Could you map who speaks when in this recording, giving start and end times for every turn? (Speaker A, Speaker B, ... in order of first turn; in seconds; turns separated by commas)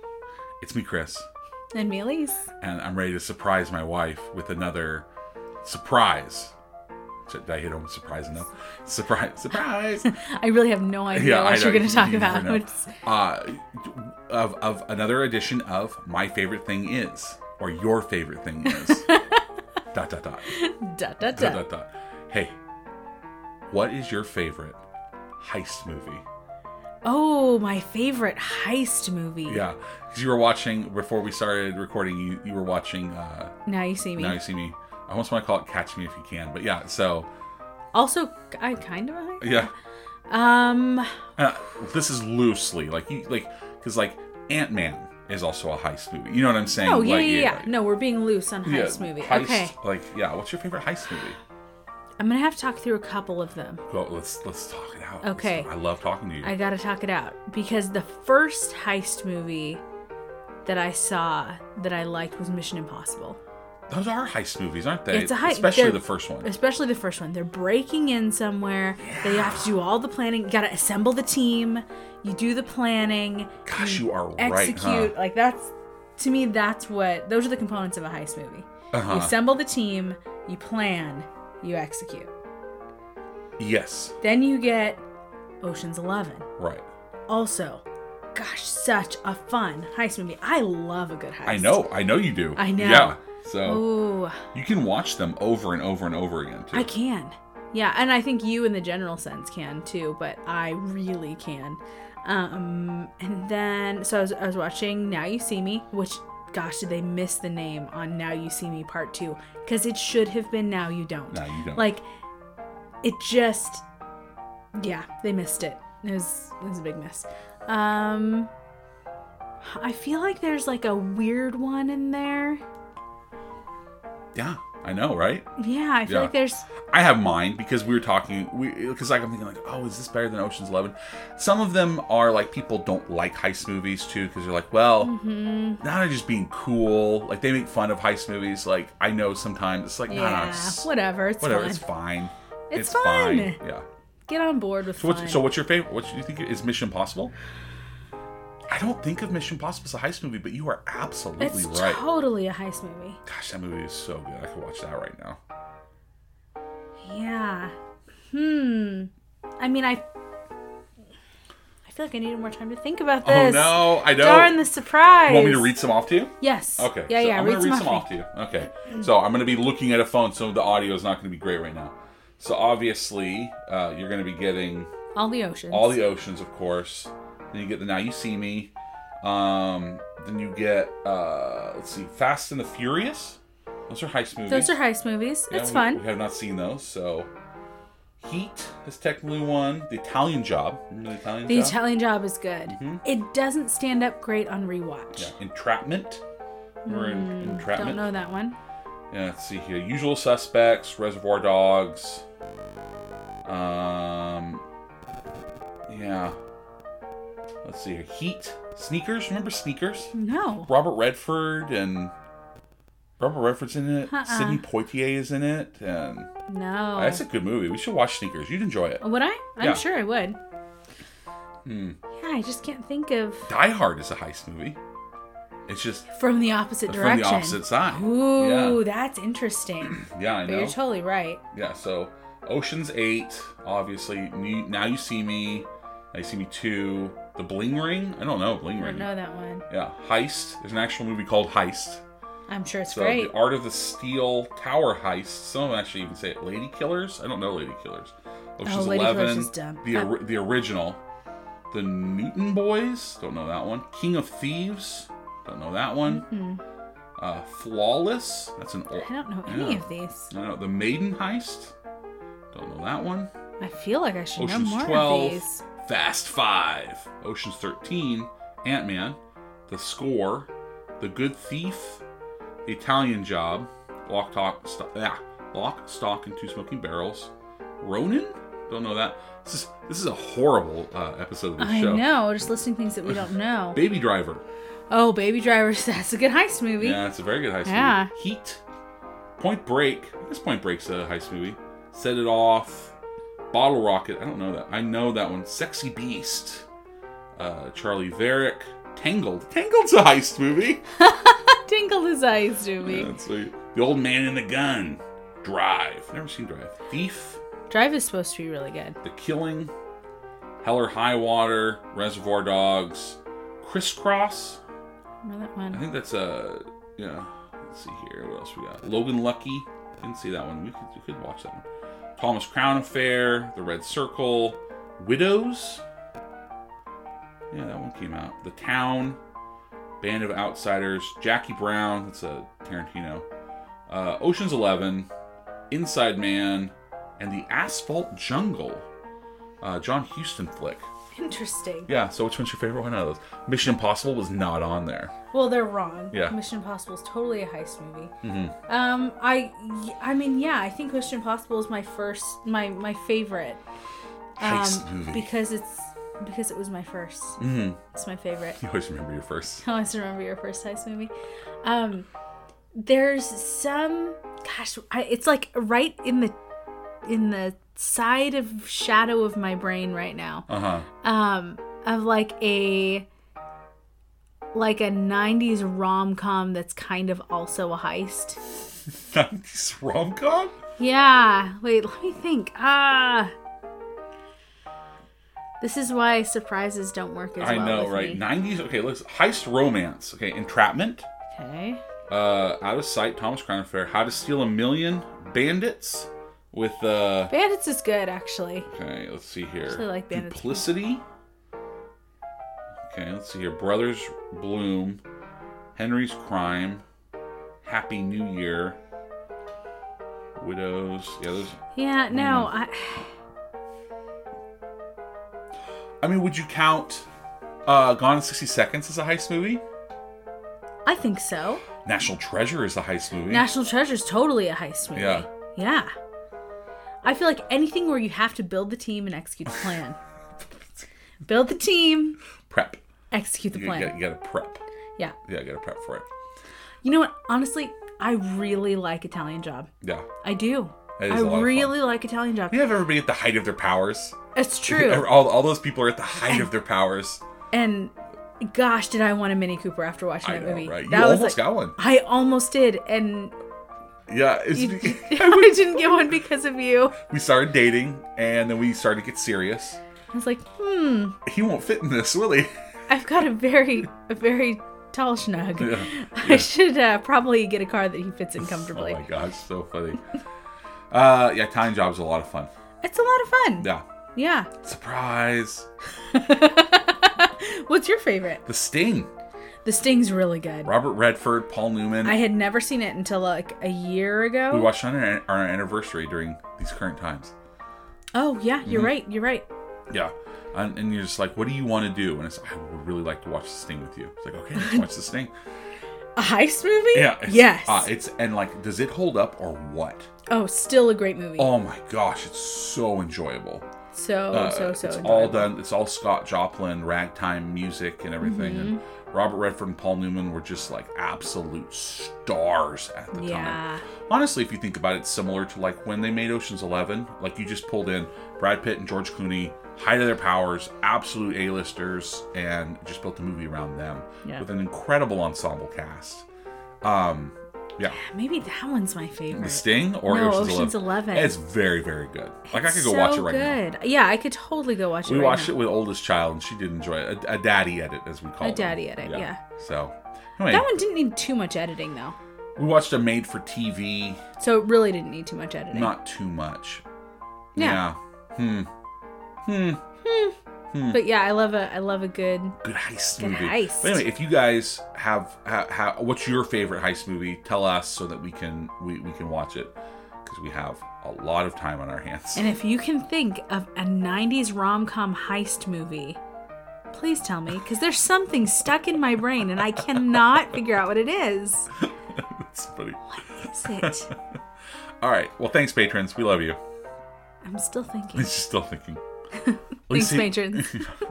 Speaker A: 0.6-1.3, Speaker B: 1.7-2.5, Speaker A: 2.6-5.1, Speaker A: 5.6-6.5, Speaker A: 7.2-10.1, Speaker B: 10.0-12.9, Speaker A: 11.1-19.1, Speaker B: 18.6-19.4, Speaker A: 19.9-20.5, Speaker B: 20.5-21.6, Speaker A: 21.2-22.6, Speaker A: 23.7-24.8, Speaker A: 25.4-26.2, Speaker B: 27.0-29.6, Speaker A: 29.5-33.5, Speaker B: 33.6-34.4, Speaker A: 34.1-37.3, Speaker B: 37.9-39.7, Speaker A: 39.4-39.7, Speaker B: 40.3-41.2, Speaker A: 41.4-47.7, Speaker B: 46.7-49.7, Speaker A: 48.6-51.4, Speaker B: 52.2-53.8, Speaker A: 53.9-56.5, Speaker B: 55.2-55.7, Speaker B: 56.4-59.8, Speaker B: 60.6-63.4, Speaker A: 63.9-66.5, Speaker B: 65.1-82.3, Speaker A: 69.0-69.7, Speaker A: 73.6-75.1, Speaker A: 78.9-79.3, Speaker A: 83.6-84.2, Speaker B: 84.2-85.0, Speaker B: 85.6-86.5, Speaker A: 86.6-86.8, Speaker B: 87.3-91.8, Speaker A: 91.4-96.9, Speaker B: 92.5-94.4, Speaker B: 96.7-112.0, Speaker A: 111.3-111.9, Speaker B: 113.0-113.8, Speaker B: 114.8-118.5, Speaker B: 119.6-122.6, Speaker A: 124.3-125.5, Speaker B: 125.6-126.7, Speaker A: 126.0-126.3, Speaker A: 126.9-135.1, Speaker B: 135.0-135.8, Speaker A: 135.8-143.8, Speaker B: 140.1-141.8, Speaker B: 142.7-143.6, Speaker B: 144.3-145.4, Speaker A: 145.0-147.3, Speaker A: 148.7-152.0, Speaker B: 151.4-153.2, Speaker A: 153.2-155.4, Speaker B: 157.0-157.7, Speaker B: 158.3-160.0, Speaker B: 161.8-165.7, Speaker A: 163.2-164.6, Speaker A: 165.2-174.9, Speaker B: 166.4-168.1, Speaker B: 175.1-176.0, Speaker A: 175.7-178.7, Speaker A: 179.2-184.8, Speaker B: 184.5-186.0, Speaker A: 185.5-187.3, Speaker A: 188.2-191.9, Speaker B: 191.4-195.3, Speaker A: 192.7-193.0, Speaker A: 195.2-196.2, Speaker B: 196.8-198.6, Speaker A: 196.9-198.1, Speaker A: 199.1-202.2, Speaker A: 203.4-204.6, Speaker A: 205.9-206.4, Speaker A: 207.6-210.1, Speaker B: 210.1-210.7, Speaker A: 210.7-212.1, Speaker A: 213.2-216.3, Speaker B: 214.1-214.6, Speaker B: 216.5-217.2, Speaker A: 217.0-219.0, Speaker B: 219.0-220.4, Speaker A: 221.6-222.0, Speaker B: 222.1-223.5, Speaker A: 223.4-224.8, Speaker A: 225.7-226.1, Speaker B: 226.1-231.4, Speaker A: 226.9-228.8, Speaker A: 229.8-230.8, Speaker A: 231.5-239.1, Speaker B: 238.8-239.6, Speaker A: 239.7-242.0, Speaker B: 242.5-243.3, Speaker A: 242.9-251.0, Speaker B: 248.6-250.1, Speaker A: 251.7-256.2, Speaker B: 256.0-256.6, Speaker A: 257.2-261.7, Speaker B: 259.0-260.3, Speaker A: 262.5-263.3, Speaker B: 263.6-265.6, Speaker A: 264.4-272.0, Speaker A: 272.6-282.1, Speaker B: 281.6-283.8, Speaker A: 283.1-284.4, Speaker B: 284.9-287.0, Speaker A: 286.8-288.6, Speaker B: 287.6-288.1, Speaker A: 289.4-292.9, Speaker A: 293.5-296.7, Speaker A: 297.4-300.8, Speaker B: 301.0-303.1, Speaker A: 302.8-307.4, Speaker B: 307.7-309.0, Speaker A: 309.0-309.7, Speaker A: 310.6-314.6, Speaker B: 315.2-315.8, Speaker A: 315.7-321.6, Speaker A: 322.2-325.8, Speaker A: 327.5-329.2, Speaker A: 330.0-333.2, Speaker A: 333.9-335.1, Speaker A: 335.7-338.9, Speaker A: 339.6-340.9, Speaker B: 341.1-341.9, Speaker A: 341.9-345.1, Speaker B: 345.3-348.1, Speaker A: 348.2-348.6, Speaker B: 348.7-353.6, Speaker B: 354.4-358.6, Speaker A: 354.4-355.3, Speaker A: 357.4-357.8, Speaker A: 358.6-359.6, Speaker B: 359.6-362.1, Speaker B: 362.8-366.3, Speaker B: 367.0-370.5, Speaker A: 370.5-370.9, Speaker B: 371.0-373.1, Speaker B: 374.5-378.4, Speaker A: 379.1-380.5, Speaker B: 380.8-383.3, Speaker B: 385.6-388.2, Speaker A: 387.4-391.1, Speaker B: 391.3-391.8, Speaker A: 392.1-397.3, Speaker B: 397.3-398.7, Speaker A: 398.7-401.0, Speaker B: 399.6-400.7, Speaker A: 402.9-405.0, Speaker A: 405.8-406.8, Speaker A: 407.6-408.8, Speaker A: 410.4-411.6, Speaker B: 411.7-413.1, Speaker A: 412.1-412.5, Speaker A: 416.0-417.1, Speaker A: 417.6-419.6, Speaker B: 420.8-421.6, Speaker A: 421.8-423.5, Speaker B: 423.3-425.9, Speaker A: 424.9-425.2, Speaker B: 427.0-430.0, Speaker B: 431.2-432.2, Speaker A: 432.5-432.8, Speaker B: 433.1-433.9, Speaker A: 433.5-434.6, Speaker A: 435.2-436.0, Speaker B: 436.8-439.7, Speaker A: 439.8-440.1, Speaker B: 440.2-442.7, Speaker A: 441.0-441.8, Speaker A: 442.5-447.2, Speaker B: 444.3-445.2, Speaker B: 447.5-453.3, Speaker A: 450.2-451.8, Speaker A: 454.1-456.1, Speaker B: 454.5-457.0, Speaker A: 456.9-459.8, Speaker B: 460.1-461.2, Speaker A: 461.2-462.5, Speaker B: 462.9-469.0, Speaker A: 465.6-466.5, Speaker A: 468.4-470.0, Speaker A: 470.9-472.5, Speaker B: 472.8-474.5, Speaker A: 473.6-473.8, Speaker A: 474.6-475.7, Speaker B: 476.1-478.4, Speaker A: 478.4-479.1, Speaker B: 479.6-480.7, Speaker A: 480.6-482.2, Speaker B: 482.0-484.7, Speaker A: 484.5-487.3, Speaker B: 488.1-489.5, Speaker A: 488.6-488.9, Speaker A: 489.9-495.3, Speaker B: 494.5-494.9, Speaker B: 496.1-497.9, Speaker A: 496.9-500.1, Speaker B: 500.3-501.5, Speaker A: 501.4-503.6, Speaker B: 503.9-505.5, Speaker A: 504.3-526.2, Speaker B: 508.2-508.8, Speaker B: 513.1-513.9, Speaker A: 526.8-528.0, Speaker B: 527.9-531.4, Speaker A: 529.3-533.6, Speaker B: 532.5-535.6, Speaker A: 535.0-540.7, Speaker B: 538.4-539.4, Speaker B: 540.5-542.1, Speaker A: 542.6-544.2, Speaker B: 544.4-545.9, Speaker A: 545.7-546.8, Speaker B: 547.5-547.8, Speaker A: 547.5-548.7, Speaker A: 549.4-549.8, Speaker B: 550.0-550.3, Speaker A: 550.7-551.0, Speaker B: 550.9-552.6, Speaker A: 552.6-562.5, Speaker B: 553.2-554.0, Speaker B: 562.3-566.2, Speaker B: 566.9-571.7, Speaker A: 572.1-574.1, Speaker B: 573.1-574.1, Speaker A: 575.0-576.6, Speaker B: 577.4-578.3, Speaker A: 578.1-579.0, Speaker B: 579.4-580.8, Speaker A: 579.9-580.9